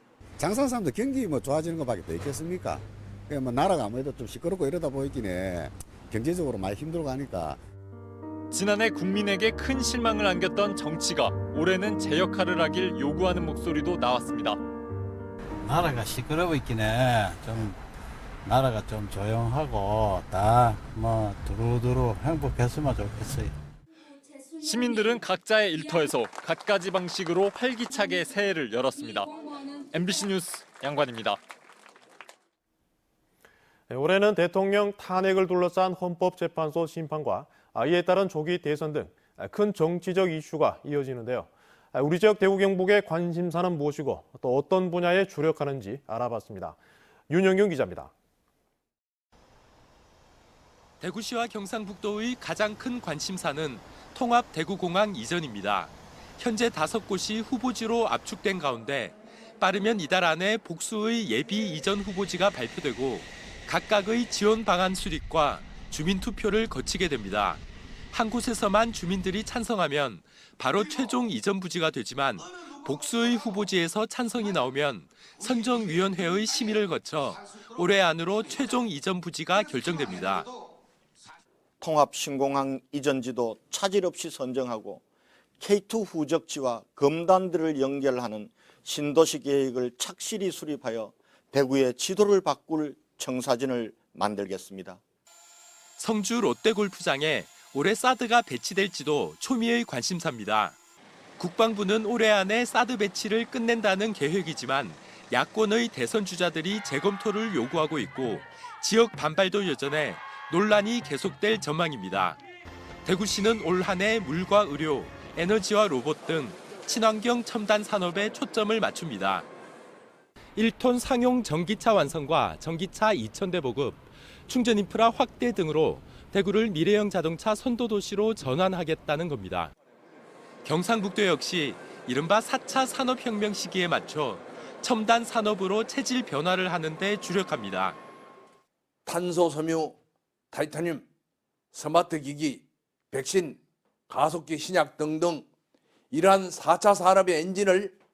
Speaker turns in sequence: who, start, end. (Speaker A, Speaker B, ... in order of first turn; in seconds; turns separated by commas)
Speaker A: 0.4-7.6, Speaker B: 8.5-14.6, Speaker C: 15.6-17.8, Speaker C: 18.4-23.5, Speaker B: 24.6-29.3, Speaker B: 29.9-31.4, Speaker D: 33.9-46.8, Speaker D: 47.3-48.1, Speaker E: 51.0-80.5, Speaker F: 81.8-85.0, Speaker F: 85.6-95.0, Speaker E: 96.0-100.8, Speaker E: 101.4-112.4, Speaker E: 113.0-119.5, Speaker E: 120.5-129.7, Speaker E: 130.6-138.0, Speaker G: 139.1-140.0, Speaker G: 140.5-141.1, Speaker G: 141.7-145.4, Speaker G: 146.1-147.9